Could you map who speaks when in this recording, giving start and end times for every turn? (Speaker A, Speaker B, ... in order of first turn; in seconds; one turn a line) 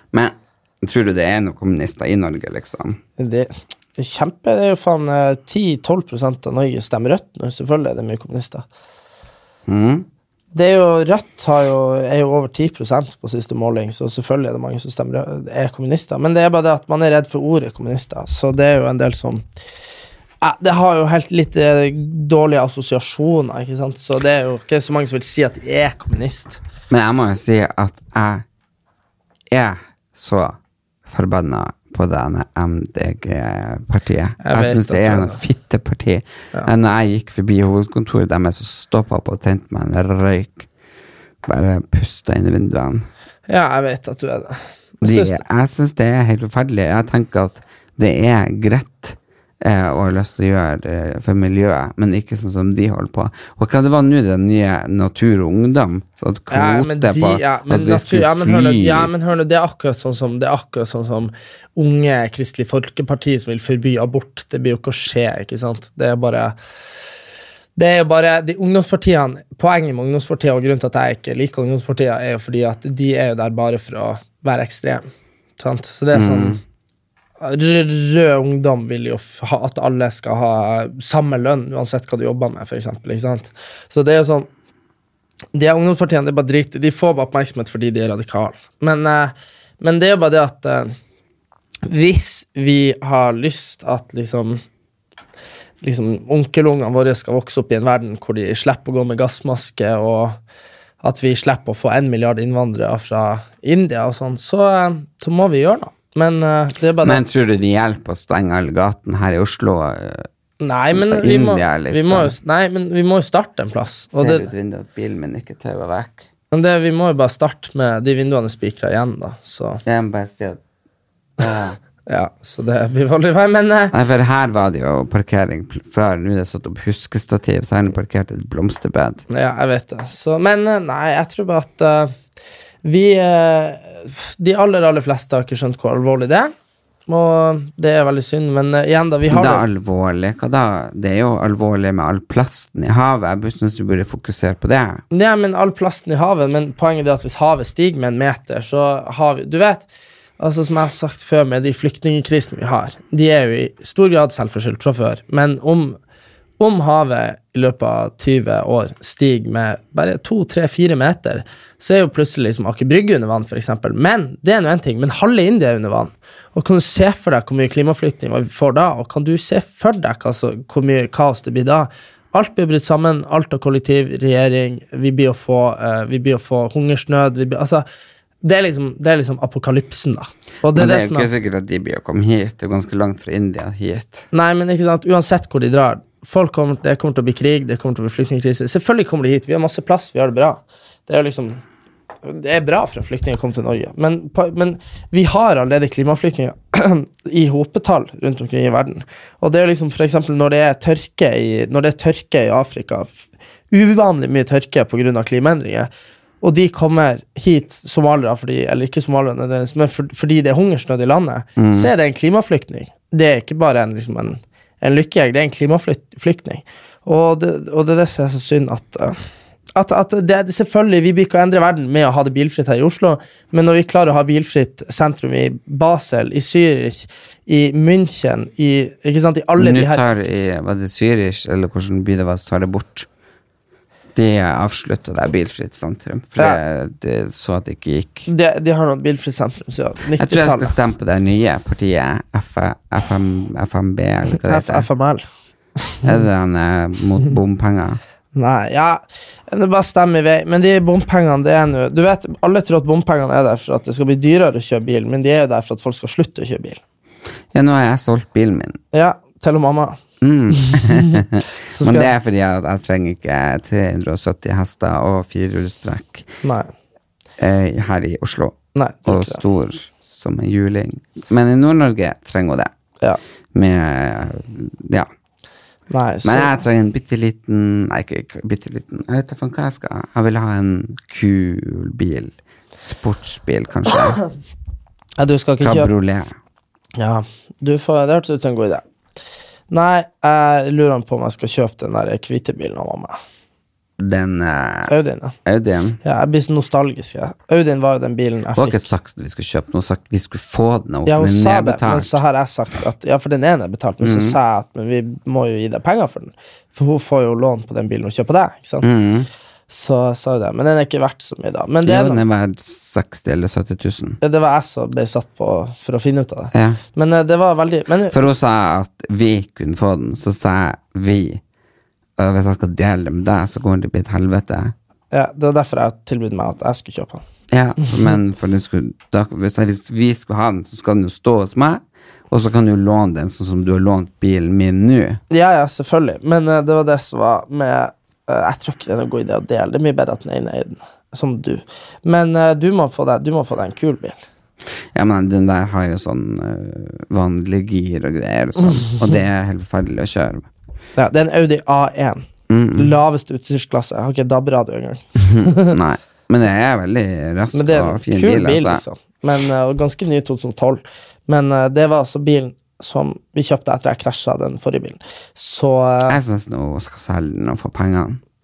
Speaker A: 0.1-3.0
Speaker B: 3.2-8.7
Speaker A: 9.7-10.1
Speaker B: 10.5-19.4
Speaker B: 20.4-26.6
Speaker A: 26.9-28.4
Speaker A: 29.5-40.7
Speaker B: 34.4-35.4
Speaker A: 41.5-43.1
Speaker B: 43.5-45.4
Speaker A: 45.0-59.1
Speaker B: 56.5-66.5
Speaker B: 67.8-75.0
Speaker B: 75.6-76.6
Speaker A: 76.1-76.6
Speaker B: 77.4-84.5
Speaker B: 85.5-90.9
Speaker B: 91.8-94.6
Speaker B: 95.8-100.4
Speaker B: 101.0-107.2
Speaker A: 107.0-110.3
Speaker B: 110.6-114.5
Speaker A: 110.9-112.3
Speaker A: 114.1-116.3
Speaker B: 116.5-119.8
Speaker A: 119.8-120.6
Speaker A: 121.4-121.8
Speaker B: 122.1-123.9
Speaker A: 123.9-129.2
Speaker B: 129.3-132.1
Speaker B: 132.8-136.5
Speaker B: 137.1-139.6
Speaker A: 139.3-145.0
Speaker B: 145.1-149.9
Speaker B: 150.4-156.0
Speaker B: 156.6-177.8
Speaker B: 178.4-181.3
Speaker A: 180.7-184.3
Speaker B: 184.3-191.6
Speaker B: 192.2-205.9
Speaker B: 206.4-219.2
Speaker A: 211.6-211.9
Speaker B: 219.8-230.0
Speaker A: 229.6-233.1
Speaker A: 234.2-238.3
Speaker B: 238.3-240.7
Speaker A: 240.2-244.9
Speaker B: 244.3-245.3
Speaker B: 245.8-246.2
Speaker A: 246.0-248.0
Speaker B: 248.3-256.8
Speaker A: 257.5-258.8
Speaker B: 258.9-260.0
Speaker A: 260.2-266.3
Speaker B: 260.5-262.1
Speaker B: 266.4-266.7
Speaker A: 267.4-272.7
Speaker B: 268.7-269.4
Speaker A: 273.5-275.1
Speaker B: 275.9-276.5
Speaker A: 276.2-284.2
Speaker B: 285.2-285.9
Speaker A: 285.6-286.3
Speaker B: 287.0-288.8
Speaker B: 289.7-293.2
Speaker A: 294.0-294.9
Speaker B: 294.9-295.4
Speaker A: 295.4-296.0
Speaker B: 296.0-298.9
Speaker A: 298.6-302.2
Speaker B: 301.1-308.9
Speaker A: 304.0-304.4
Speaker A: 308.8-309.3
Speaker B: 309.7-312.2
Speaker A: 311.9-314.2
Speaker B: 314.2-318.2
Speaker A: 316.5-316.8
Speaker A: 318.1-321.4
Speaker A: 322.2-324.7
Speaker B: 325.1-327.2
Speaker A: 327.5-335.2
Speaker B: 327.8-328.1
Speaker B: 335.3-344.2
Speaker A: 344.9-350.5
Speaker B: 351.0-355.8
Speaker A: 352.5-353.0
Speaker A: 355.2-358.8
Speaker B: 357.5-366.2
Speaker A: 366.1-368.2